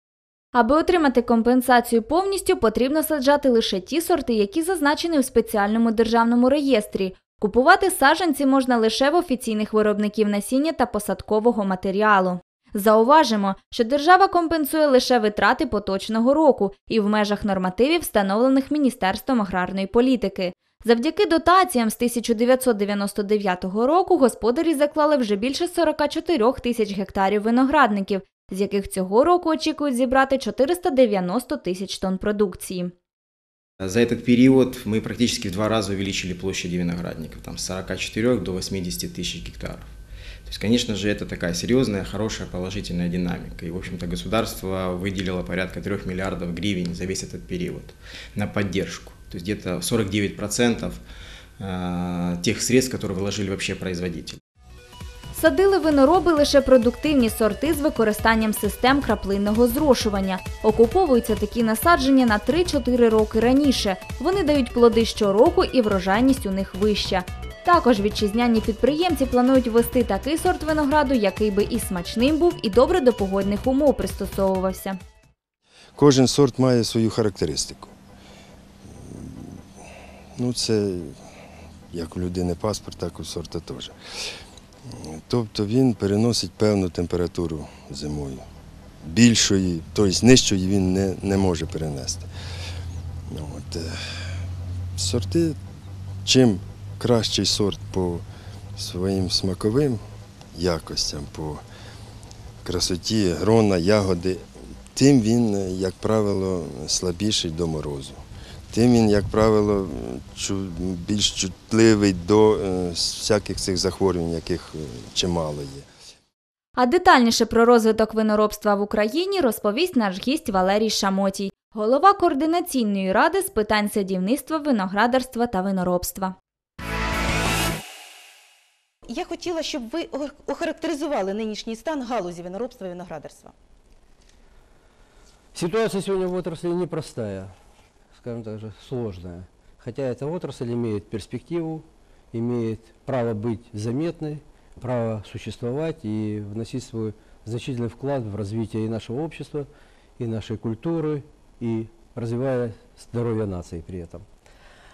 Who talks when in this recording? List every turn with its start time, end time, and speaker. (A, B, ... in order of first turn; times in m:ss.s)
0:00.5-0:32.9 A
0:33.8-0:39.9 B
0:40.5-0:51.0 B
0:51.6-0:54.4 B
0:55.3-1:15.0 A
1:16.0-1:17.9 C
1:19.1-1:19.5 C
1:20.4-1:21.2 C
1:21.9-1:24.0 C
1:25.1-1:28.4 C
1:29.0-1:32.3 C
1:33.3-1:34.0 C
1:35.0-1:35.6 C
1:36.2-1:38.2 C
1:38.8-1:40.0 C
1:40.5-1:41.6 C
1:42.6-1:48.2 C
1:48.7-1:55.9 C
1:56.8-2:06.4 A
2:09.1-2:13.5 D
2:15.5-2:17.5 E
2:18.2-2:34.2 E